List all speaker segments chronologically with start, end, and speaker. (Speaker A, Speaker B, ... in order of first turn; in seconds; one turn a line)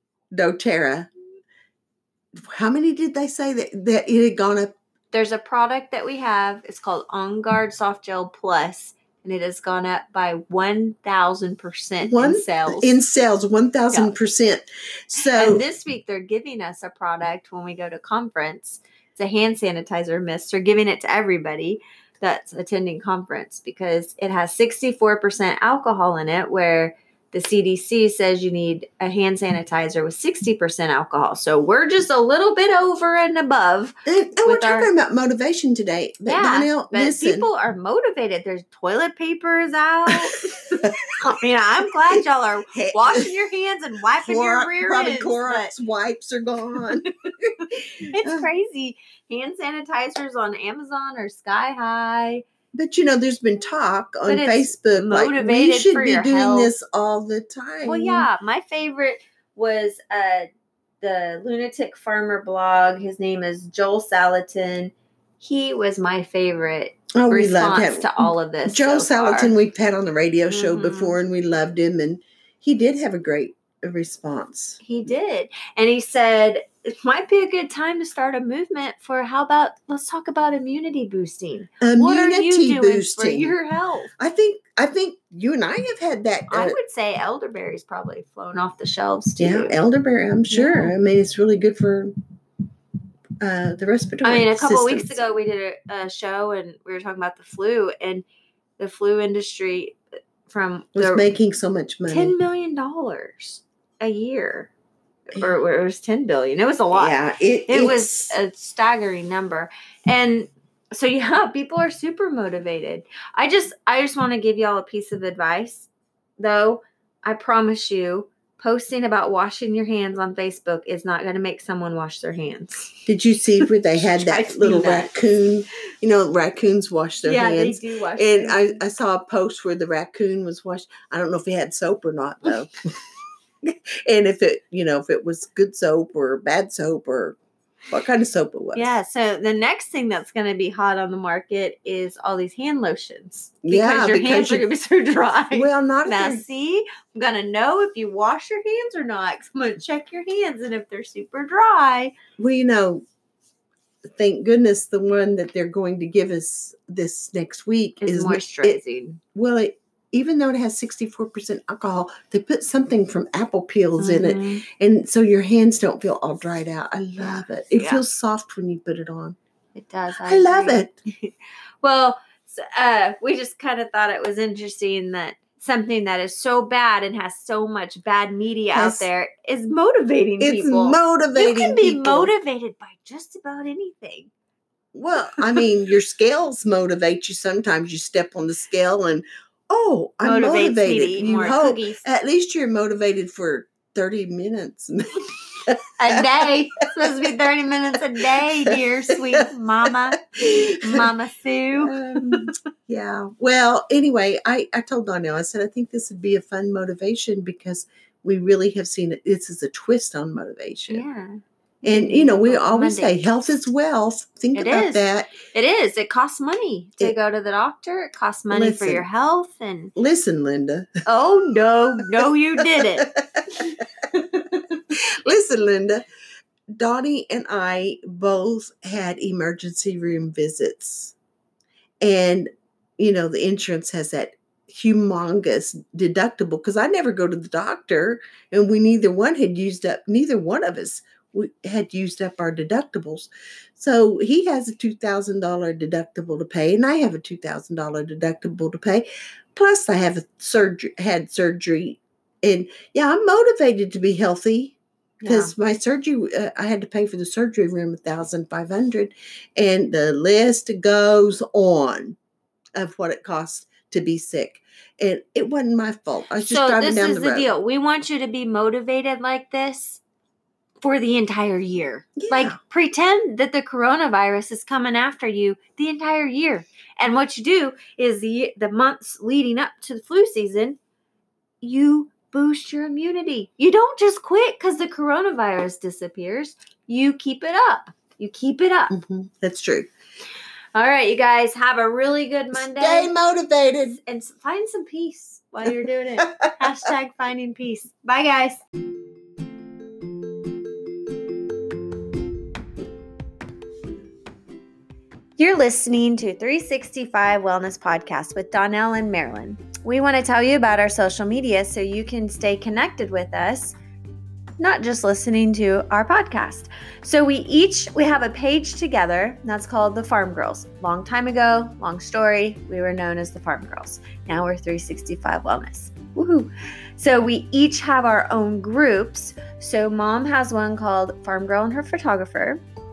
Speaker A: 0.3-1.1
Speaker A: 2.4-4.7
Speaker B: 5.1-12.9
Speaker A: 12.1-15.6
Speaker B: 15.3-34.9
Speaker A: 34.1-37.5
Speaker B: 36.3-45.7
Speaker A: 42.7-43.3
Speaker A: 44.3-47.1
Speaker A: 47.7-48.5
Speaker B: 48.2-52.4
Speaker A: 52.7-58.3
Speaker B: 54.3-56.7
Speaker B: 57.9-60.5
Speaker B: 61.0-69.5
Speaker A: 67.2-74.8
Speaker B: 70.5-71.2
Speaker B: 74.8-84.1
Speaker A: 81.8-83.5
Speaker A: 84.2-86.8
Speaker B: 86.5-89.8
Speaker A: 89.4-92.2
Speaker B: 90.5-90.9
Speaker A: 93.4-95.2
Speaker B: 94.2-98.3
Speaker B: 98.8-101.2
Speaker A: 101.0-102.3
Speaker B: 102.1-104.7
Speaker B: 105.3-107.2
Speaker A: 106.9-108.4
Speaker B: 107.7-122.9
Speaker A: 123.1-132.9
Speaker B: 124.0-125.2
Speaker B: 127.2-128.8
Speaker A: 133.6-137.4
Speaker A: 137.9-139.0
Speaker B: 138.8-152.1
Speaker A: 143.6-144.7
Speaker A: 145.5-146.4
Speaker A: 152.4-153.0
Speaker A: 154.2-158.8
Speaker B: 158.0-159.2
Speaker A: 159.3-169.4
Speaker B: 164.0-164.6
Speaker B: 167.7-168.0
Speaker B: 169.8-184.3
Speaker A: 170.3-170.9
Speaker A: 178.7-179.1
Speaker A: 180.4-182.3
Speaker A: 184.9-196.5
Speaker B: 190.2-192.1
Speaker B: 196.0-202.6
Speaker A: 198.4-201.1
Speaker A: 201.8-211.1
Speaker B: 210.9-213.2
Speaker A: 211.8-215.3
Speaker B: 214.5-219.9
Speaker A: 218.5-219.1
Speaker A: 220.0-220.9
Speaker B: 221.1-224.2
Speaker A: 223.0-223.6
Speaker A: 224.9-226.0
Speaker A: 226.8-231.2
Speaker A: 232.0-262.2
Speaker B: 255.2-255.5
Speaker A: 262.8-267.5
Speaker B: 266.4-270.0
Speaker B: 270.8-280.8
Speaker A: 272.2-272.6
Speaker B: 281.6-288.9
Speaker A: 288.9-289.9
Speaker B: 290.8-293.1
Speaker A: 292.5-294.0
Speaker B: 293.8-298.6
Speaker A: 296.2-296.7
Speaker B: 305.4-313.8
Speaker B: 314.6-332.6